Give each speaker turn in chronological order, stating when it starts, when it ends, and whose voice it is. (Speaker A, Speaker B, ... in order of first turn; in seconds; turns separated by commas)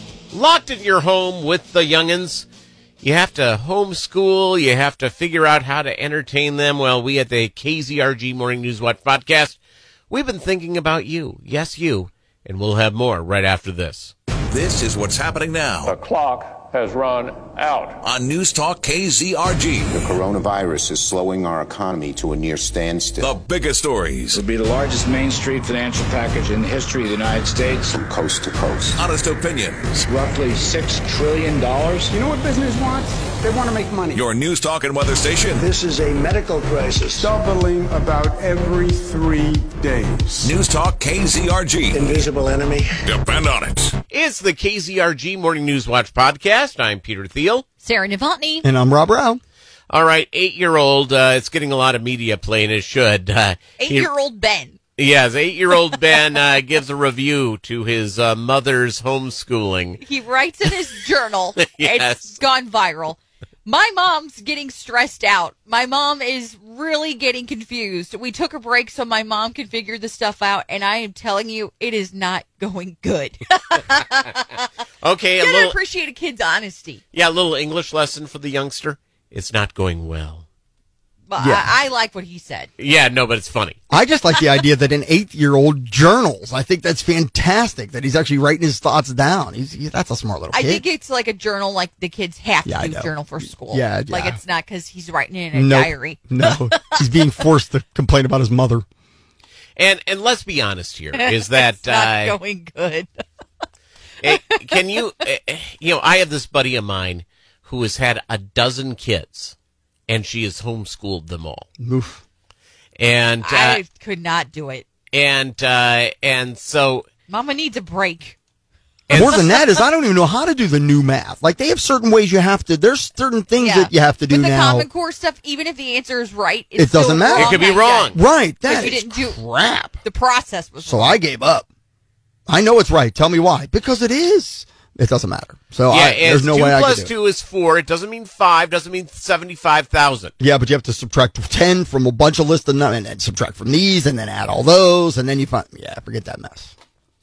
Speaker A: 0.3-2.5, Speaker A: 3.0-9.6, Speaker A: 10.1-14.1, Speaker B: 14.5-16.0, Speaker C: 15.8-18.0, Speaker B: 18.0-20.1, Speaker D: 19.8-23.4, Speaker B: 23.2-24.4, Speaker E: 24.3-27.9, Speaker D: 27.8-29.0, Speaker B: 28.9-30.1, Speaker E: 30.1-32.1, Speaker F: 32.1-34.2, Speaker B: 34.1-35.6, Speaker G: 35.5-37.3, Speaker F: 37.2-40.5, Speaker B: 40.4-42.2, Speaker G: 41.9-43.0, Speaker B: 43.0-43.9, Speaker A: 44.1-47.6, Speaker H: 47.8-48.6, Speaker I: 48.6-49.4, Speaker A: 49.9-54.1, Speaker H: 53.8-54.8, Speaker A: 55.0-60.0, Speaker H: 60.0-74.7, Speaker A: 61.6-62.3, Speaker A: 75.0-75.8, Speaker H: 75.4-77.0, Speaker A: 77.1-80.5, Speaker H: 81.3-82.7, Speaker I: 81.4-81.7, Speaker A: 82.8-83.8, Speaker I: 83.9-90.8, Speaker H: 90.5-96.8, Speaker I: 92.7-94.4, Speaker I: 95.5-98.8, Speaker A: 99.8-102.3, Speaker H: 101.1-103.2, Speaker A: 104.2-109.5, Speaker H: 104.3-104.8, Speaker A: 110.1-111.7, Speaker I: 111.8-112.2, Speaker A: 113.0-113.8, Speaker H: 113.4-114.8, Speaker A: 115.1-117.0, Speaker H: 117.3-118.4, Speaker A: 119.1-119.4, Speaker H: 119.1-119.7, Speaker I: 119.1-124.9, Speaker H: 123.6-129.4, Speaker I: 126.8-130.0, Speaker A: 127.3-128.2, Speaker H: 130.0-131.2, Speaker I: 130.8-131.7, Speaker I: 132.5-137.1, Speaker A: 135.9-140.3, Speaker I: 140.4-146.7